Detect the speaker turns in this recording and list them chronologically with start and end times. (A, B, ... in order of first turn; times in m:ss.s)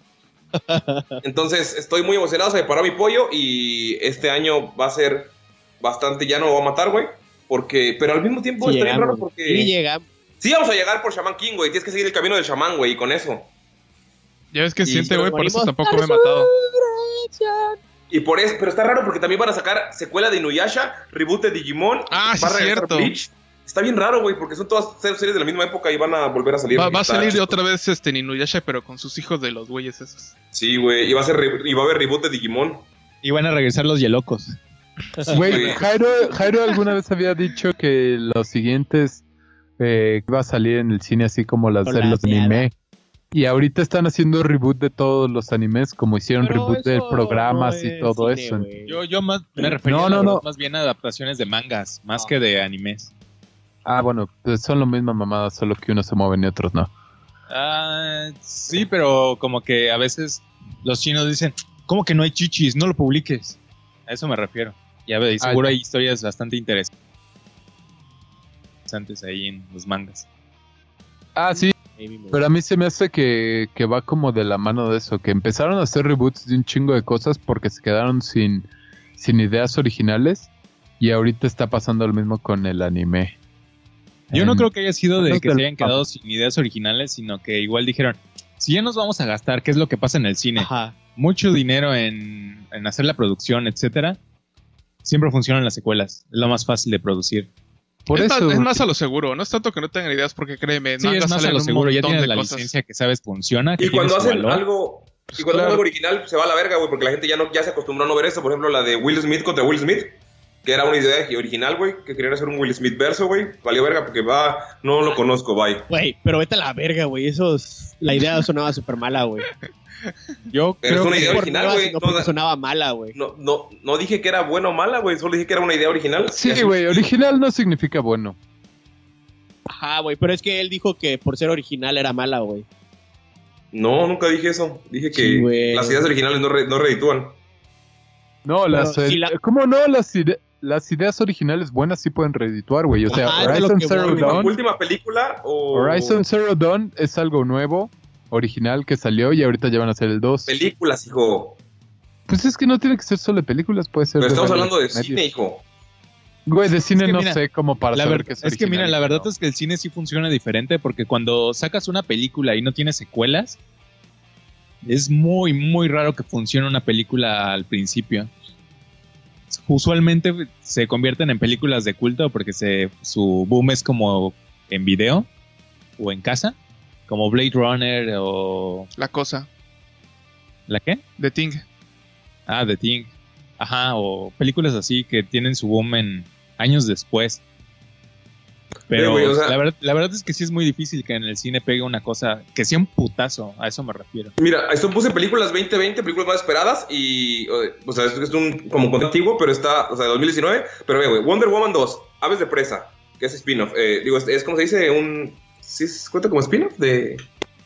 0:00.6-0:01.2 A
0:01.2-0:09.7 B
0:08.6-0:10.0 A
0:10.4-0:13.5 B
0:14.5-0:16.5 C
0:14.8-0:17.8 A
0:18.1-0:27.5 B
0:22.1-0:23.1 C
0:26.7-0:30.3 C
0:30.5-0:32.9 B
0:33.2-0:34.6 D
0:35.3-0:39.2 E
0:35.3-0:35.8 B
0:39.8-0:42.7 E
0:41.8-0:42.6 A
0:43.3-0:48.7 E
0:46.4-0:49.0 A
0:48.8-0:53.1 D
0:49.8-0:50.4 E
0:53.8-0:56.9 E
0:57.5-1:06.9 D
1:05.4-1:05.7 E
1:08.9-1:10.3 D
1:11.3-1:11.7 E
1:11.8-1:12.4 A
1:12.3-1:23.4 E
1:24.3-1:26.0 E
1:24.3-1:34.2 D
1:30.6-1:31.0 A
1:35.0-1:37.5 D
1:38.1-1:38.8 E
1:38.1-1:42.7 C
1:41.0-1:44.6 D
1:43.8-1:55.8 B
1:45.4-1:45.8 E
1:55.9-1:59.5 A
2:00.5-2:01.4 D
2:00.8-2:02.3 B
2:01.1-2:03.1 A
2:03.1-2:07.1 B
2:06.3-2:08.4 E
2:09.7-2:12.6 A
2:13.7-2:17.4 B
2:15.1-2:16.1 A
2:18.4-2:24.5 E
2:18.7-2:19.3 A
2:23.1-2:24.5 A
2:23.1-2:26.2 B
2:25.7-2:30.5 E
2:30.5-2:31.6 B
2:32.3-2:35.2 E
2:34.2-2:35.6 B
2:36.4-2:39.3 E
2:37.0-2:37.4 D
2:37.9-2:43.6 D
2:44.8-2:48.3 D
2:49.5-2:55.3 D
2:56.0-2:56.6 D
2:57.1-2:58.9 D
2:59.0-2:59.5 C
3:00.7-3:01.0 D
3:01.2-3:01.6 C
3:02.5-3:07.4 D
3:08.9-3:14.3 D
3:08.9-3:09.6 B
3:14.4-3:27.2 B